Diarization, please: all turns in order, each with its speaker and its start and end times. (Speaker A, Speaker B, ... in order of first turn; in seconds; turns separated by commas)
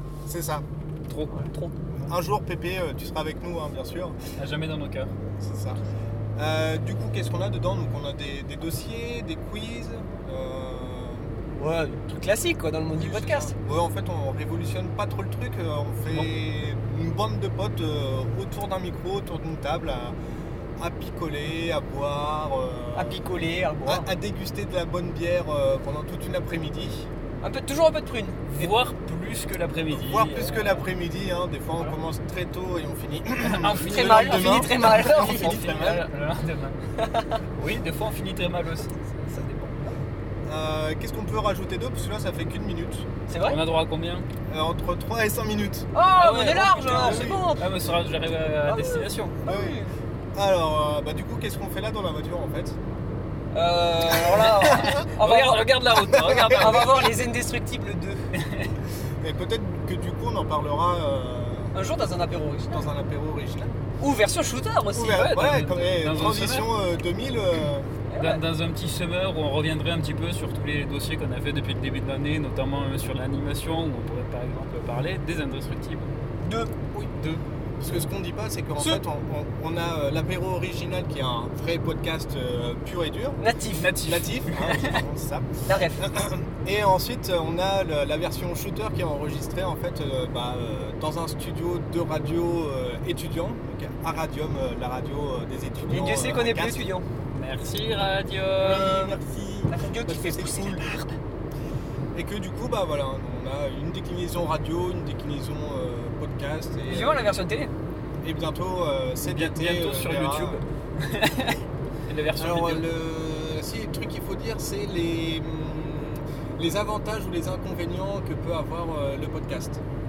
Speaker A: 0.3-0.6, Speaker B: 1.1-1.7, Speaker A: 2.0-4.2, Speaker B: 4.3-5.1, Speaker A: 5.4-5.8, Speaker A: 6.3-11.3, Speaker C: 11.6-13.5, Speaker A: 12.9-20.1, Speaker A: 20.8-23.2, Speaker C: 22.9-24.1, Speaker A: 23.8-27.1, Speaker C: 27.4-28.6, Speaker B: 28.5-30.9, Speaker A: 29.9-36.0, Speaker B: 33.4-36.8, Speaker C: 33.7-36.0, Speaker C: 37.0-37.4, Speaker B: 37.5-39.5, Speaker C: 39.3-39.8, Speaker A: 40.5-43.1, Speaker C: 43.3-43.6, Speaker B: 43.4-44.2, Speaker A: 44.5-45.9, Speaker C: 45.9-47.7, Speaker B: 46.1-49.4, Speaker A: 46.9-47.5, Speaker C: 48.6-49.9, Speaker A: 49.4-49.8, Speaker A: 50.3-52.8, Speaker C: 53.5-58.3, Speaker A: 54.1-55.0, Speaker B: 54.4-57.1, Speaker A: 56.1-56.7, Speaker B: 58.4-58.7, Speaker A: 59.2-61.7, Speaker C: 61.7-62.9, Speaker A: 62.7-63.7, Speaker C: 64.0-65.6, Speaker A: 64.9-67.9, Speaker B: 65.1-66.7, Speaker C: 68.1-68.4, Speaker B: 68.2-76.1, Speaker C: 76.4-76.7, Speaker B: 77.2-77.4, Speaker A: 77.8-83.4, Speaker C: 83.4-84.0, Speaker B: 83.7-85.0, Speaker A: 83.9-96.8, Speaker C: 85.6-86.1, Speaker C: 95.9-97.0, Speaker B: 97.3-99.1, Speaker A: 98.6-100.9, Speaker C: 98.8-99.1, Speaker C: 99.7-101.1, Speaker A: 102.1-107.3, Speaker C: 106.8-107.7, Speaker A: 108.2-110.6, Speaker B: 109.2-112.9, Speaker A: 112.3-119.8